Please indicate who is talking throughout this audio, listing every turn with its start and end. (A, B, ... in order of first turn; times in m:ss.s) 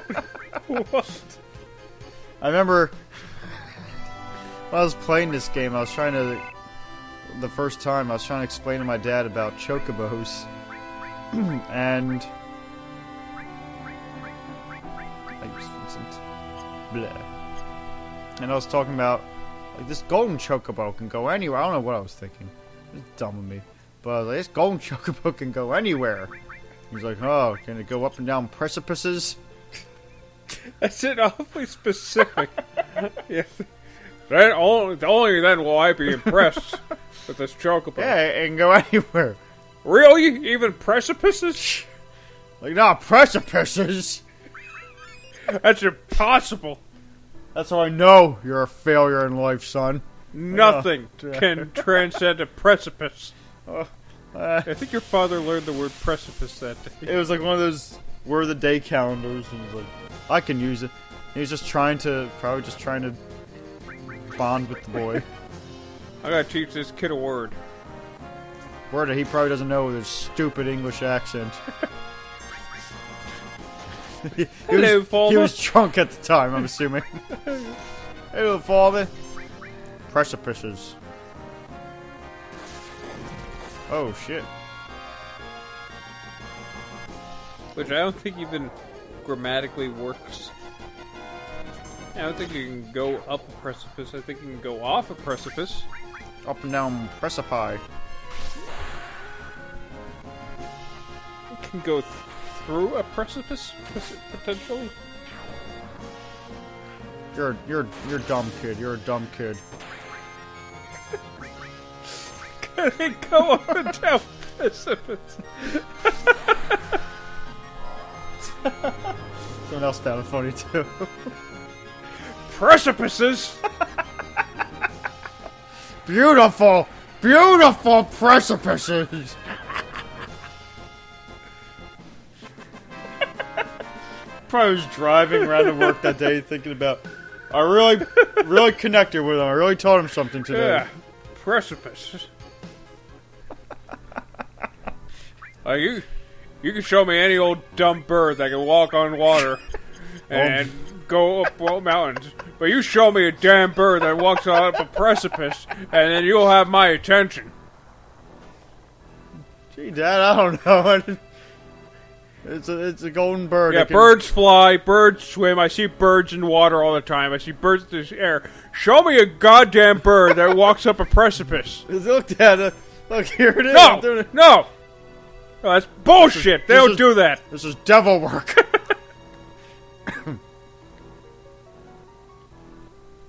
0:00.6-0:01.4 A
0:02.4-0:03.0 B
0:04.7-0:06.4 B
0:07.3-0:10.5 B
0:11.3-0:12.3 B
0:15.4-0:16.2 B
0:16.9-0:17.3 B
0:18.4-0:26.3 B
0:26.9-0:29.4 B
0:30.6-0:33.7 A
0:34.3-0:38.2 A
0:38.0-0:39.4 B
0:39.8-0:41.7 A
0:41.6-0:41.8 B
0:42.6-0:44.2 B
0:45.5-0:46.8 A
0:47.5-0:52.2 B
0:50.3-0:53.3 A
0:53.6-0:54.7 B
0:54.6-0:57.2 A
0:57.0-1:03.2 B
1:04.3-1:05.2 B
1:06.2-1:07.6 A
1:08.9-1:11.6 B
1:14.2-1:17.2 B
1:14.7-1:15.6 A
1:17.4-1:17.7 A
1:18.3-1:19.1 B
1:20.1-1:21.0 B
1:23.9-1:24.5 B
1:27.7-1:28.7 A
1:29.2-1:30.5 A
1:32.1-1:35.8 A
1:36.4-1:37.8 B
1:41.5-1:44.9 A
1:47.3-1:49.6 B
1:52.6-1:56.1 A
1:58.6-1:59.1 B
1:59.6-2:01.3 B
2:02.4-2:03.6 A
2:06.0-2:09.4 B
2:14.5-2:20.8 B
2:15.5-2:16.1 A
2:18.2-2:18.5 A
2:20.5-2:22.3 A
2:25.6-2:26.0 A
2:26.6-2:29.6 A
2:30.3-2:37.5 A
2:30.3-2:30.7 B
2:39.7-2:41.2 B
2:42.4-2:44.2 B
2:43.7-2:51.8 A
2:51.9-2:54.3 B
2:53.7-2:54.7 A
2:55.6-2:57.4 A
2:56.2-2:58.8 B
3:00.1-3:00.4 B